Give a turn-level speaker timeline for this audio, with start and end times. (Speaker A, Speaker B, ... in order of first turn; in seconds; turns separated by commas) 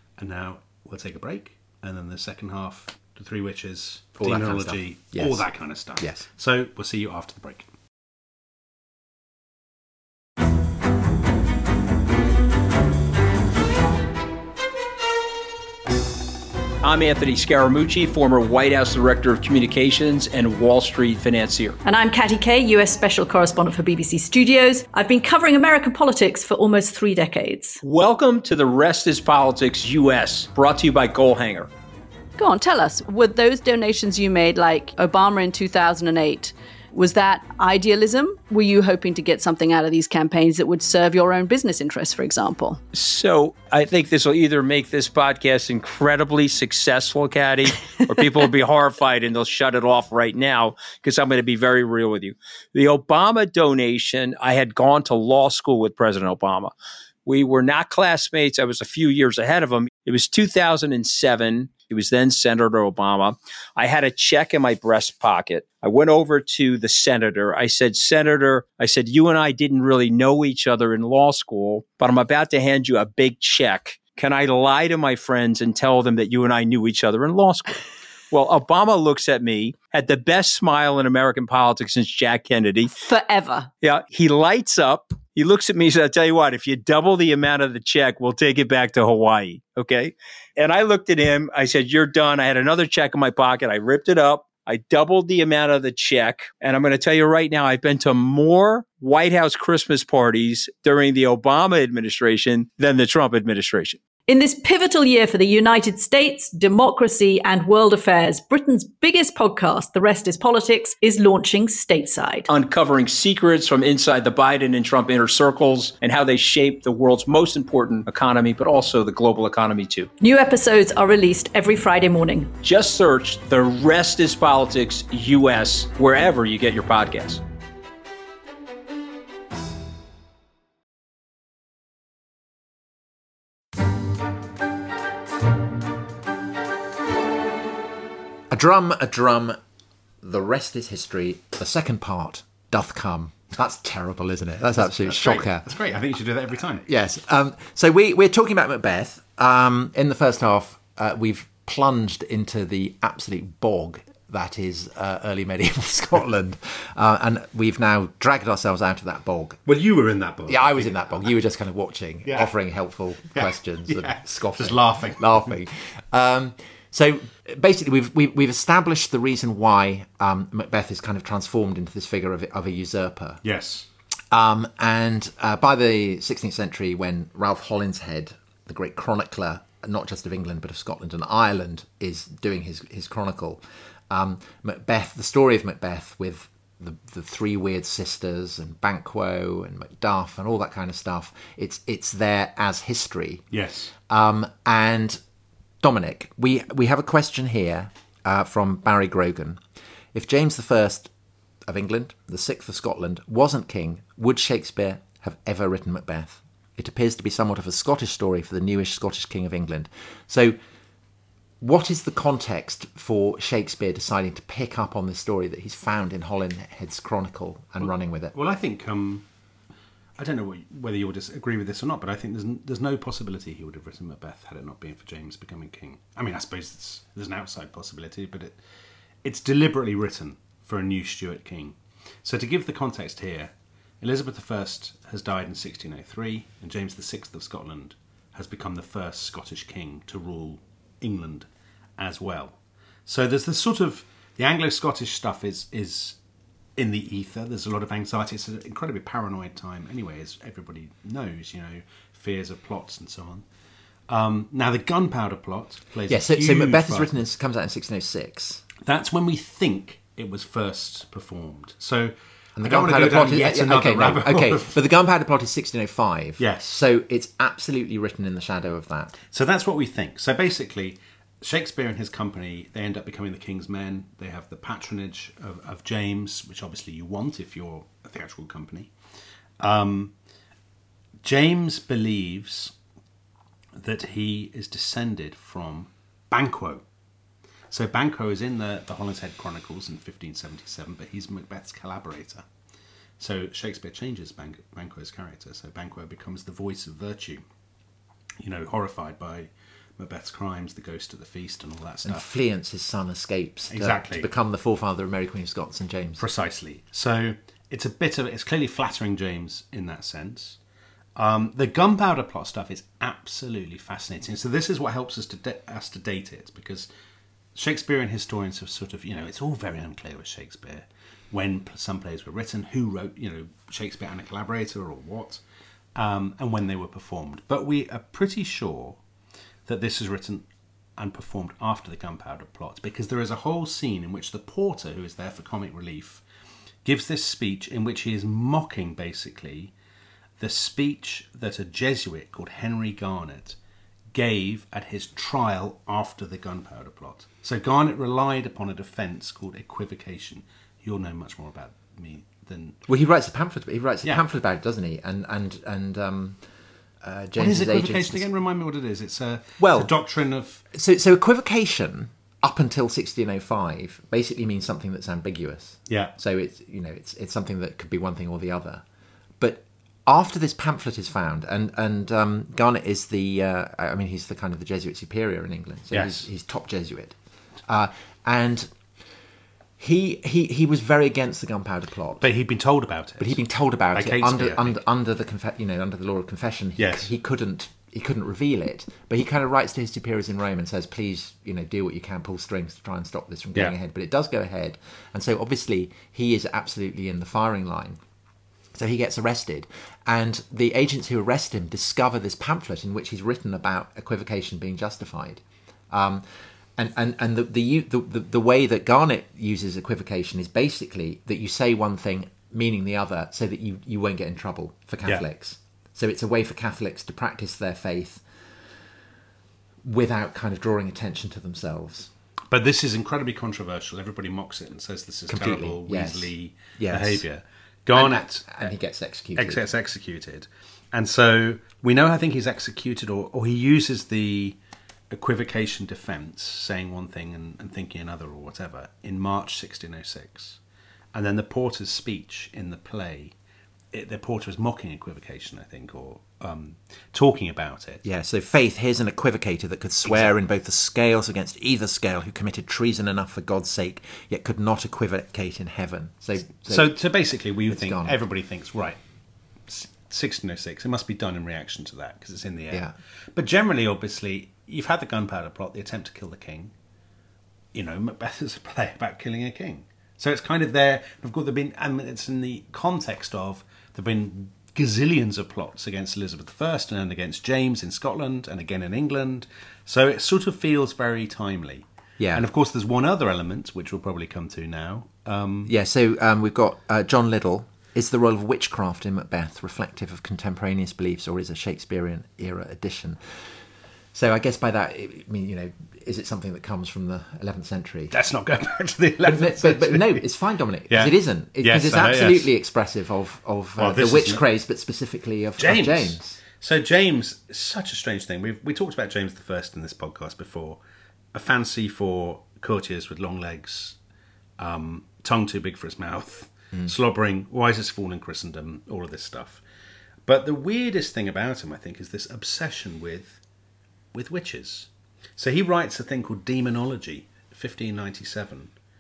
Speaker A: 0.2-7.7, Speaker B: 4.2-5.5, Speaker B: 6.0-6.2, Speaker C: 16.8-21.8, Speaker D: 21.8-27.8, Speaker C: 27.8-31.7, Speaker D: 32.4-42.8, Speaker C: 42.9-56.7, Speaker C: 57.3-77.8, Speaker C: 78.3-82.9, Speaker D: 83.0-83.7, Speaker C: 83.8-104.0, Speaker D: 104.3-112.5, Speaker C: 112.5-120.1, Speaker D: 120.2-122.5, Speaker C: 122.6-127.4, Speaker B: 138.5-139.6, Speaker B: 140.2-145.7, Speaker A: 144.7-146.9, Speaker B: 146.8-159.6, Speaker A: 159.7-161.0, Speaker B: 160.5-173.4, Speaker A: 163.3-165.5, Speaker A: 173.4-173.9, Speaker B: 174.3-193.5, Speaker A: 193.5-193.9, Speaker B: 194.1-195.2, Speaker B: 195.8-199.6, Speaker B: 200.1-201.1, Speaker B: 201.7-210.6, Speaker B: 211.6-218.3, Speaker A: 217.8-219.2, Speaker A: 220.2-228.6, Speaker A: 229.2-241.5, Speaker A: 242.0-246.2, Speaker A: 246.8-253.4, Speaker A: 254.1-257.1, Speaker B: 256.1-258.6, Speaker A: 258.8-264.8, Speaker B: 262.6-269.2, Speaker A: 266.4-266.7, Speaker A: 269.3-278.9, Speaker A: 279.6-280.1, Speaker A: 281.2-282.7, Speaker A: 283.8-286.8, Speaker A: 287.7-292.4, Speaker A: 293.2-297.4, Speaker A: 298.4-302.3, Speaker B: 302.1-306.2, Speaker A: 303.7-304.3, Speaker A: 306.2-310.6, Speaker A: 311.2-316.9, Speaker A: 317.6-325.4, Speaker A: 325.9-329.0, Speaker A: 329.7-330.5, Speaker A: 331.0-336.2, Speaker A: 336.9-339.7, Speaker A: 340.4-343.6, Speaker A: 344.1-352.8, Speaker B: 352.9-356.4, Speaker B: 357.0-358.3, Speaker A: 357.4-360.6, Speaker B: 359.6-359.9, Speaker B: 360.7-368.8, Speaker A: 365.9-366.1, Speaker B: 369.4-377.2, Speaker A: 375.9-376.3, Speaker B: 377.7-378.7, Speaker B: 379.8-382.3, Speaker A: 382.2-383.4, Speaker B: 383.2-398.0, Speaker A: 383.9-384.8, Speaker A: 386.8-387.1, Speaker B: 398.7-406.2, Speaker B: 406.8-418.2, Speaker B: 419.8-422.1, Speaker A: 422.5-428.6, Speaker B: 425.3-427.2, Speaker B: 427.9-429.6, Speaker A: 429.4-434.6, Speaker A: 435.1-440.6, Speaker A: 441.1-443.3, Speaker A: 443.9-448.0, Speaker B: 448.0-457.0, Speaker A: 456.7-459.0, Speaker B: 457.7-458.2, Speaker A: 459.7-466.7, Speaker A: 467.7-485.7, Speaker B: 482.2-482.4, Speaker B: 485.7-493.2, Speaker B: 494.1-498.1, Speaker A: 498.1-500.2, Speaker B: 499.2-506.4, Speaker A: 500.9-502.5, Speaker A: 503.8-504.4, Speaker A: 505.6-510.8, Speaker A: 511.3-514.0, Speaker A: 514.6-519.6, Speaker A: 520.3-523.4, Speaker A: 524.1-528.7